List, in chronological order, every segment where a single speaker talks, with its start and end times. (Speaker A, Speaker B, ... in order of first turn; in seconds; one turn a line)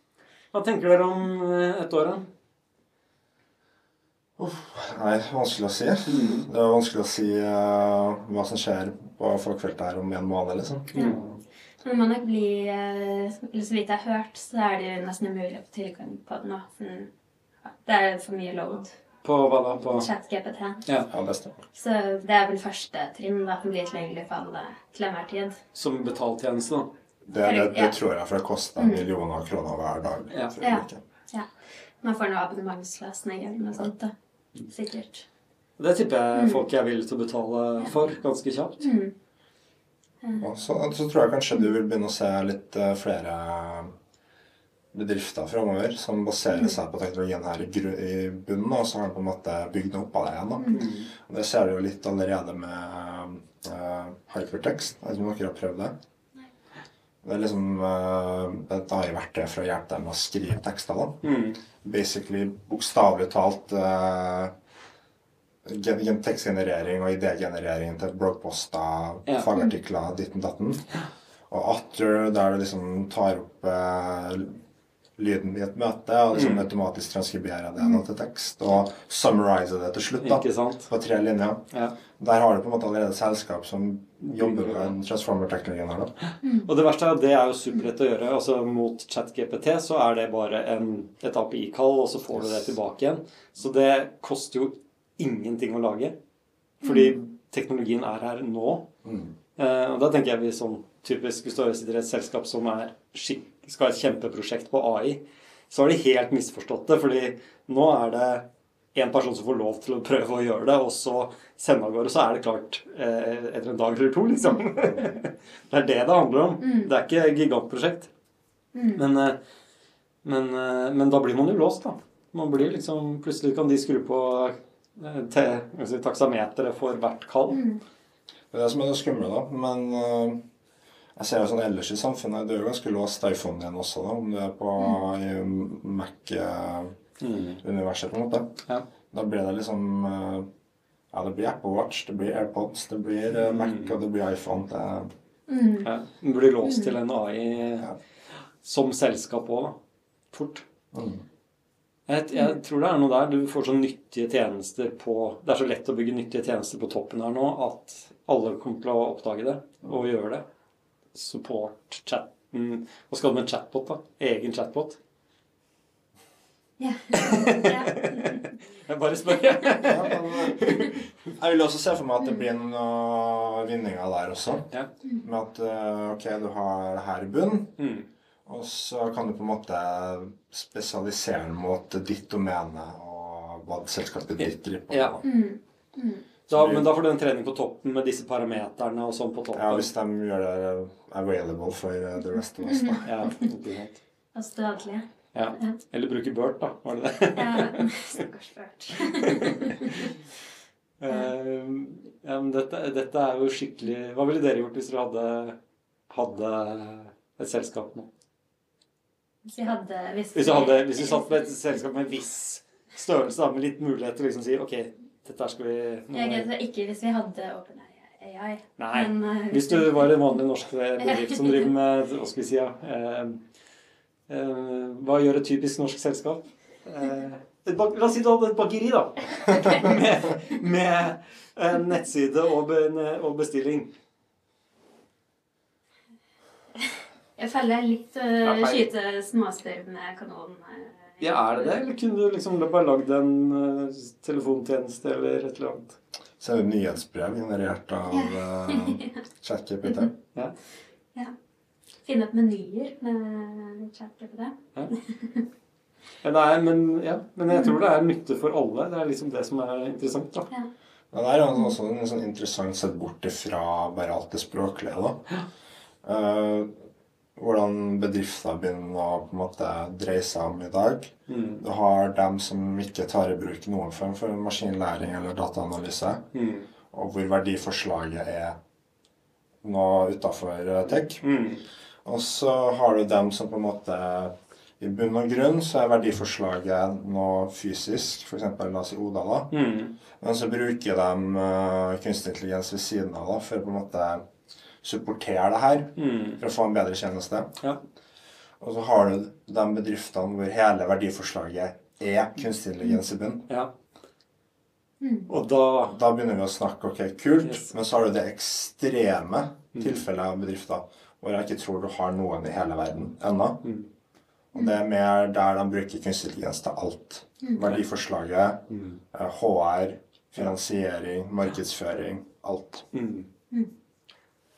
Speaker A: 0.5-2.3
Speaker B: 4.4-11.1
Speaker A: 6.1-6.5
Speaker A: 10.9-11.4
Speaker C: 11.8-17.1
Speaker C: 17.6-19.0
Speaker A: 19.2-20.1
Speaker C: 19.8-20.8
Speaker B: 21.1-21.7
Speaker C: 21.7-25.6
Speaker A: 25.7-26.9
Speaker B: 27.2-31.0
Speaker C: 27.4-28.0
Speaker C: 28.8-29.1
Speaker C: 30.6-31.5
Speaker C: 32.0-34.1
Speaker C: 34.7-35.2
Speaker A: 35.8-38.9
Speaker C: 36.3-36.6
Speaker C: 38.8-39.1
Speaker B: 40.4-43.9
Speaker B: 44.9-55.9
Speaker C: 50.6-50.9
Speaker A: 50.7-51.1
Speaker B: 57.2-61.2
Speaker A: 61.2-61.6
Speaker B: 61.8-64.5
Speaker B: 65.6-70.9
Speaker B: 71.5-74.6
Speaker B: 75.2-81.6
Speaker A: 76.3-76.7
Speaker A: 80.2-80.9
Speaker B: 82.2-86.1
Speaker A: 84.2-84.9
Speaker A: 86.3-96.2
Speaker C: 86.4-86.7
Speaker B: 92.4-92.7
Speaker A: 96.8-98.9
Speaker C: 96.8-97.1
Speaker B: 99.0-99.3
Speaker A: 99.6-118.1
Speaker C: 116.6-116.9
Speaker C: 118.7-119.0
Speaker A: 119.0-119.4
Speaker A: 120.2-127.6
Speaker C: 127.5-127.8
Speaker B: 128.5-130.4
Speaker B: 131.2-136.9
Speaker A: 137.2-137.6
Speaker B: 137.6-138.6
Speaker B: 139.1-140.5
Speaker B: 141.1-145.1
Speaker A: 143.4-143.9
Speaker C: 145.5-145.9
Speaker A: 145.8-147.9
Speaker C: 146.6-146.9
Speaker A: 148.6-149.8
Speaker A: 150.3-150.7
Speaker B: 150.9-151.2
Speaker A: 152.1-160.4
Speaker A: 161.1-165.0
Speaker C: 166.8-168.6
Speaker A: 167.1-171.1
Speaker B: 169.9-170.6
Speaker B: 171.4-174.7
Speaker B: 175.2-177.8
Speaker A: 177.8-178.1
Speaker B: 178.4-185.3
Speaker A: 184.4-185.2
Speaker C: 185.2-186.2
Speaker B: 186.5-186.9
Speaker A: 186.5-189.9
Speaker B: 189.5-193.3
Speaker C: 192.6-193.3
Speaker A: 193.1-194.0
Speaker C: 194.3-195.1
Speaker A: 195.3-197.8
Speaker C: 197.3-200.1
Speaker A: 199.0-200.2
Speaker A: 201.0-205.6
Speaker A: 206.1-208.1
Speaker C: 209.4-211.3
Speaker A: 210.3-216.5
Speaker C: 216.1-220.1
Speaker A: 218.8-223.4
Speaker C: 221.0-221.6
Speaker A: 224.3-233.9
Speaker C: 237.4-241.8
Speaker A: 238.4-238.9
Speaker A: 241.2-246.0
Speaker B: 246.4-250.1
Speaker C: 248.1-249.2
Speaker C: 252.0-255.4
Speaker A: 256.2-260.5
Speaker B: 261.1-265.2
Speaker B: 266.0-266.7
Speaker B: 267.4-276.2
Speaker A: 271.3-271.6
Speaker A: 276.3-276.7
Speaker B: 276.9-278.6
Speaker B: 279.6-281.2
Speaker A: 281.2-281.6
Speaker B: 282.1-289.5
Speaker A: 289.5-289.9
Speaker B: 290.2-294.2
Speaker B: 294.8-297.5
Speaker A: 296.0-296.4
Speaker B: 298.6-303.5
Speaker A: 305.3-306.0
Speaker B: 305.9-313.6
Speaker A: 307.4-307.7
Speaker A: 309.8-310.0
Speaker A: 313.6-313.9
Speaker B: 314.5-322.9
Speaker A: 318.7-319.0
Speaker A: 322.9-323.3